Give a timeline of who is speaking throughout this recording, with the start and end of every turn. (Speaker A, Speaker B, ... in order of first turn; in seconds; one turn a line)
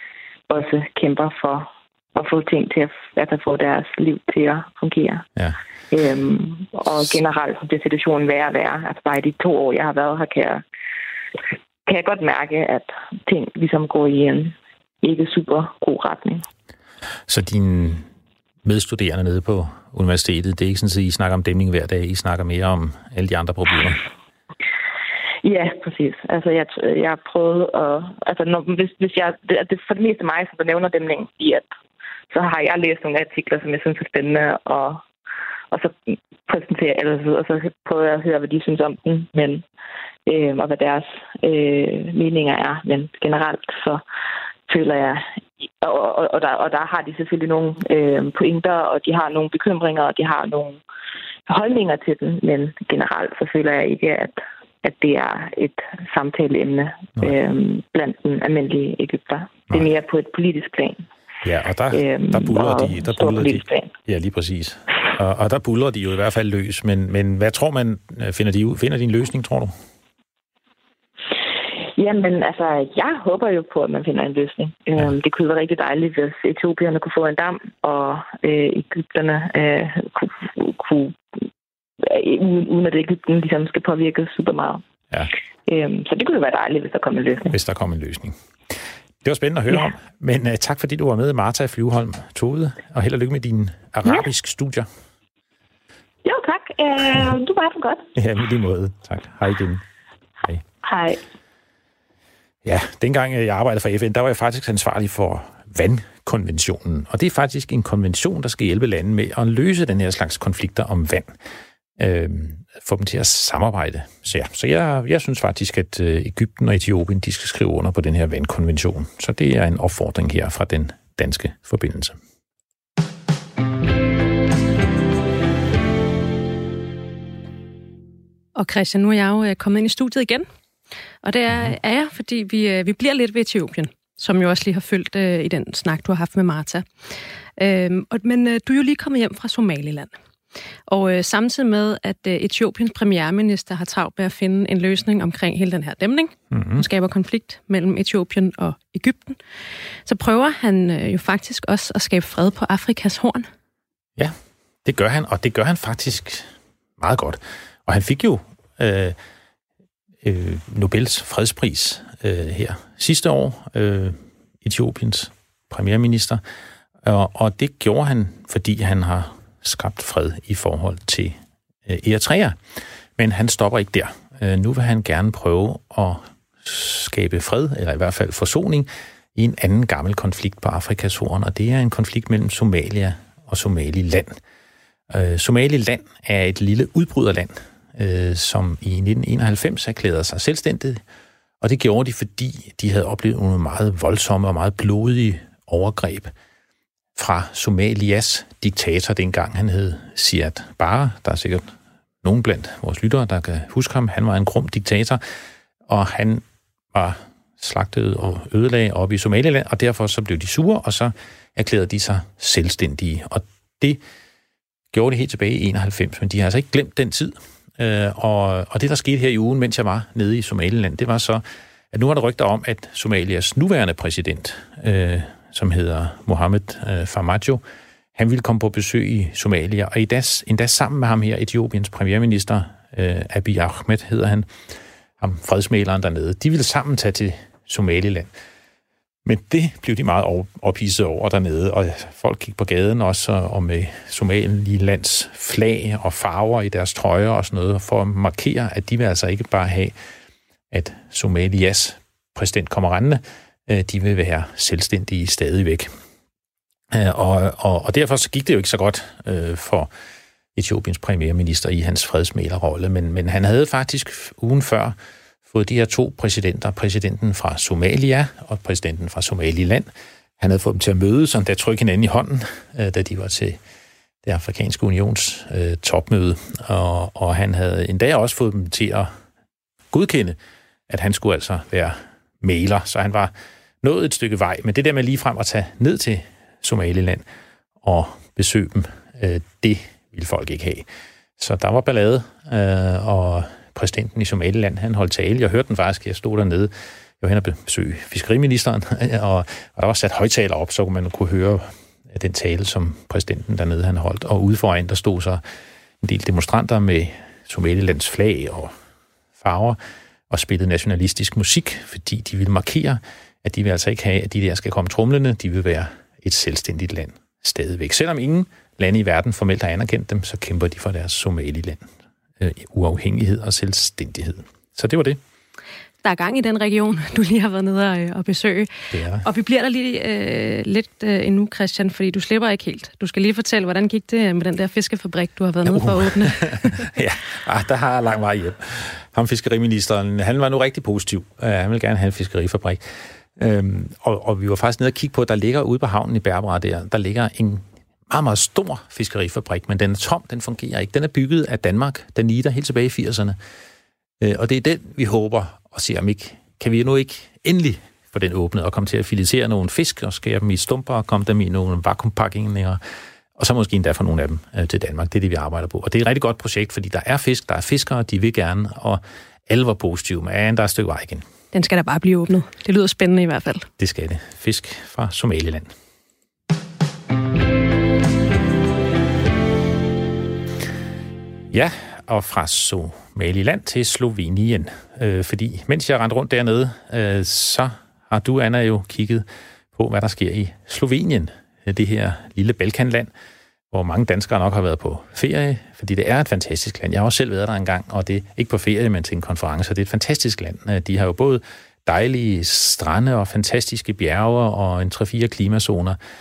Speaker A: 0.5-5.3
Speaker A: 5.9-10.6
Speaker A: 11.9-16.4
Speaker B: 17.3-18.1
Speaker B: 18.6-24.0
Speaker A: 25.4-31.7
Speaker A: 32.3-35.0
Speaker A: 35.7-39.6
Speaker A: 40.3-44.0
Speaker A: 44.7-45.3
Speaker A: 45.8-50.8
Speaker A: 51.5-61.0
Speaker B: 61.4-69.8
Speaker A: 61.9-63.9
Speaker A: 72.0-81.2
Speaker A: 82.0-84.8
Speaker A: 85.7-87.6
Speaker B: 87.5-94.9
Speaker A: 96.2-98.0
Speaker B: 98.2-99.8
Speaker A: 100.8-101.2
Speaker B: 102.6-111.3
Speaker B: 112.0-122.2
Speaker C: 128.6-130.5
Speaker C: 131.2-136.9
Speaker C: 137.6-140.1
Speaker C: 140.9-149.4
Speaker B: 146.5-146.8
Speaker C: 150.1-153.5
Speaker B: 154.2-156.5
Speaker B: 157.0-159.2
Speaker B: 160.2-166.4
Speaker B: 167.0-172.6
Speaker B: 173.2-184.3
Speaker B: 185.1-191.0
Speaker B: 191.6-196.3
Speaker B: 197.2-205.2
Speaker B: 205.9-214.0
Speaker B: 214.9-227.6
Speaker B: 228.2-234.5
Speaker B: 235.2-238.3
Speaker B: 239.3-249.9
Speaker B: 250.7-255.9
Speaker B: 256.9-259.9
Speaker B: 260.6-264.9
Speaker B: 265.5-273.6
Speaker B: 274.2-279.1
Speaker B: 279.9-280.4
Speaker B: 280.9-287.2
Speaker B: 287.8-290.9
Speaker B: 291.4-305.4
Speaker B: 306.0-308.7
Speaker B: 309.4-309.8
Speaker B: 310.3-321.9
Speaker B: 322.4-325.2
Speaker C: 326.0-328.7
Speaker B: 328.9-329.2
Speaker C: 329.2-336.9
Speaker B: 335.7-342.8
Speaker B: 343.4-353.4
Speaker B: 354.2-362.8
Speaker B: 363.4-371.2
Speaker C: 371.5-373.7
Speaker B: 373.8-375.7
Speaker B: 381.5-393.1
Speaker B: 393.7-406.0